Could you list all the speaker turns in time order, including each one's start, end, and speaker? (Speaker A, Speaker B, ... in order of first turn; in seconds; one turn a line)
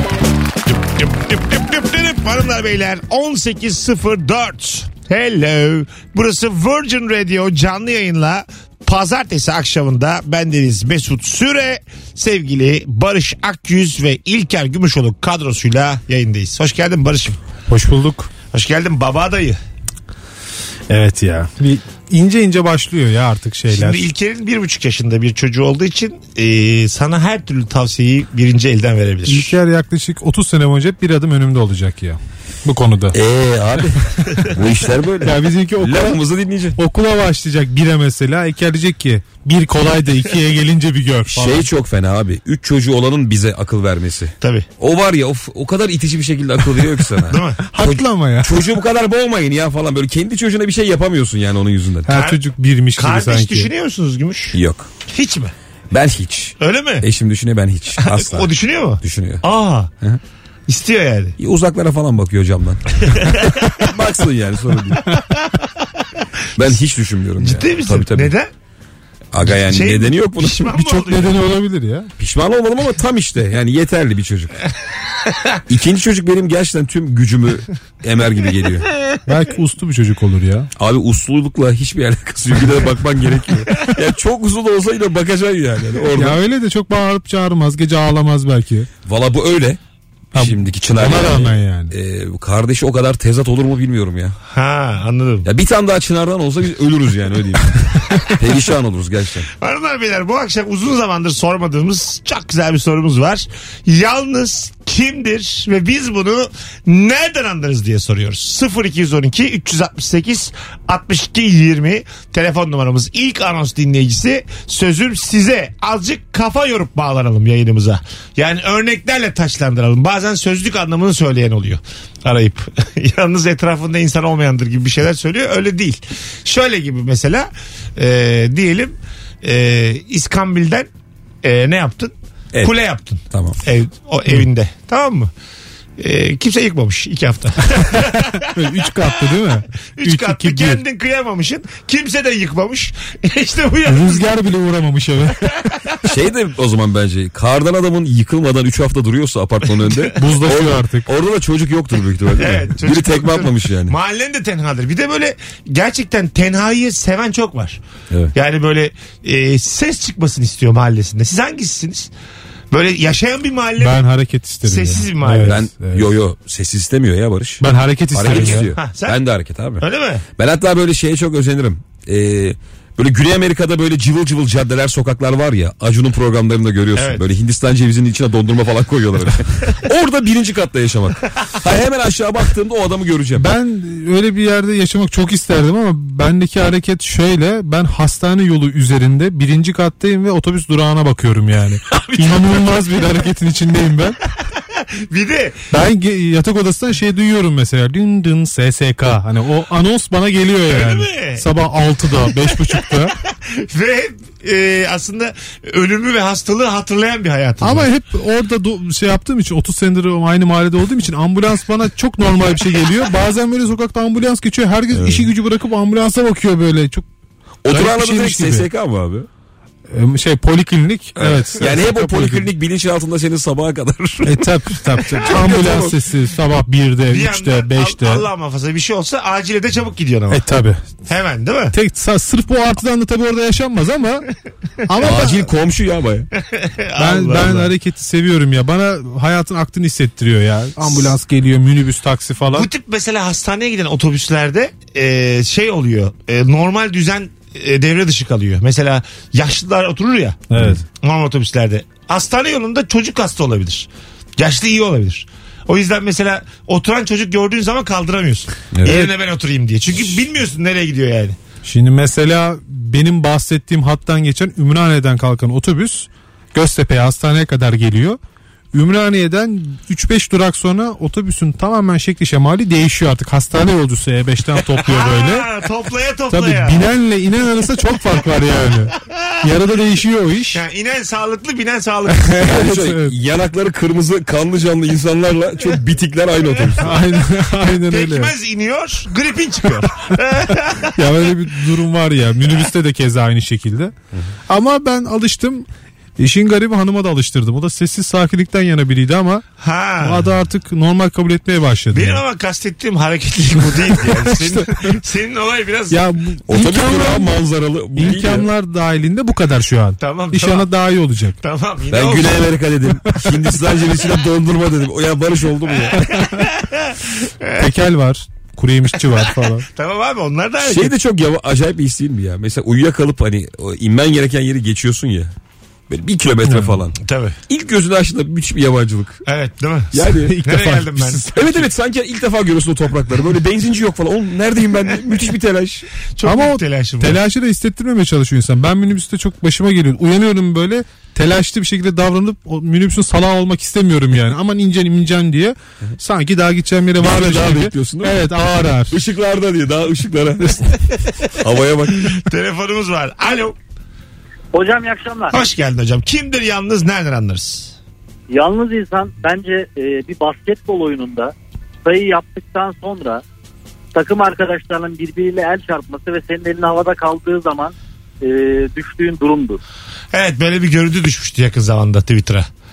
Speaker A: 0.7-17.4
Speaker B: 17.7-18.3
Speaker A: 18.5-19.6
Speaker B: 20.9-24.0
Speaker A: 23.7-29.6
Speaker B: 29.2-33.1
Speaker C: 33.1-36.8
Speaker B: 35.2-36.2
Speaker B: 36.8-41.7
Speaker C: 41.3-52.1
Speaker A: 44.4-44.6
Speaker A: 47.3-47.6
Speaker B: 47.7-48.5
Speaker B: 52.1-53.7
Speaker A: 52.1-52.4
Speaker A: 53.0-55.5
Speaker C: 54.5-54.9
Speaker C: 55.9-59.4
Speaker A: 56.6-57.0
Speaker A: 58.0-59.9
Speaker A: 60.7-61.3
Speaker C: 61.4-65.1
Speaker A: 63.1-63.9
Speaker C: 66.6-68.3
Speaker A: 67.4-68.5
Speaker C: 69.3-70.7
Speaker A: 69.4-71.5
Speaker B: 70.7-72.1
Speaker C: 72.2-74.5
Speaker A: 75.3-75.6
Speaker C: 75.7-78.9
Speaker B: 79.2-80.7
Speaker C: 80.8-86.4
Speaker B: 86.2-88.9
Speaker C: 89.0-89.8
Speaker C: 90.3-94.3
Speaker B: 90.3-91.9
Speaker A: 94.5-95.5
Speaker C: 95.4-99.5
Speaker A: 99.6-130.9
Speaker A: 131.4-135.3
Speaker C: 133.3-133.6
Speaker A: 136.0-139.1
Speaker B: 137.8-140.8
Speaker A: 139.9-144.3
Speaker B: 143.8-145.7
Speaker C: 146.0-153.9
Speaker B: 150.2-151.1
Speaker A: 152.4-157.8
Speaker A: 158.3-162.1
Speaker A: 162.7-164.0
Speaker B: 163.8-166.1
Speaker A: 164.6-165.6
Speaker C: 165.4-169.8
Speaker B: 167.6-168.7
Speaker A: 168.3-169.2
Speaker A: 169.8-170.2
Speaker C: 170.3-183.5
Speaker A: 176.9-177.2
Speaker B: 183.4-194.2
Speaker A: 191.9-192.6
Speaker A: 195.1-195.6
Speaker B: 195.7-203.2
Speaker A: 200.7-201.5
Speaker A: 203.3-207.9
Speaker B: 207.6-217.1
Speaker C: 214.9-215.3
Speaker C: 217.6-219.3
Speaker B: 217.7-218.7
Speaker B: 219.9-222.5
Speaker C: 221.2-224.5
Speaker B: 224.2-228.3
Speaker C: 225.2-226.0
Speaker A: 227.1-230.4
Speaker B: 230.3-230.9
Speaker A: 231.1-231.7
Speaker B: 231.7-234.3
Speaker B: 234.8-235.4
Speaker C: 235.0-236.3
Speaker A: 235.0-235.3
Speaker A: 236.4-237.7
Speaker B: 236.9-242.7
Speaker A: 242.5-250.4
Speaker B: 250.5-250.8
Speaker A: 250.9-261.4
Speaker C: 258.7-259.1
Speaker B: 261.6-268.2
Speaker B: 268.7-275.5
Speaker A: 274.8-276.9
Speaker B: 276.3-280.6
Speaker A: 279.0-279.3
Speaker A: 280.5-282.4
Speaker B: 282.1-283.1
Speaker C: 282.4-287.0
Speaker A: 286.7-287.1
Speaker B: 286.8-288.3
Speaker A: 287.7-290.9
Speaker B: 290.9-293.9
Speaker B: 294.5-295.7
Speaker B: 296.2-299.4
Speaker A: 299.6-300.3
Speaker B: 300.0-302.2
Speaker A: 301.9-306.0
Speaker B: 304.0-304.9
Speaker B: 305.9-307.4
Speaker C: 306.5-308.5
Speaker B: 307.9-311.4
Speaker A: 310.0-310.7
Speaker A: 311.4-312.5
Speaker C: 311.9-316.1
Speaker A: 315.9-317.7
Speaker B: 316.0-316.5
Speaker B: 317.6-319.7
Speaker A: 319.1-320.9
Speaker C: 320.6-325.3
Speaker C: 325.9-327.0
Speaker B: 326.4-326.8
Speaker A: 327.0-327.4
Speaker C: 327.5-329.2
Speaker A: 329.2-331.5
Speaker C: 329.9-330.4
Speaker B: 330.2-331.6
Speaker C: 331.3-335.9
Speaker A: 336.1-337.2
Speaker B: 336.2-349.0
Speaker C: 347.0-348.2
Speaker C: 348.9-350.8
Speaker C: 351.3-352.1
Speaker A: 352.0-353.6
Speaker D: 354.5-355.3
Speaker A: 355.3-357.7
Speaker D: 358.3-361.3
Speaker D: 361.9-363.2
Speaker D: 363.9-367.7
Speaker D: 368.2-369.6
Speaker A: 370.1-372.5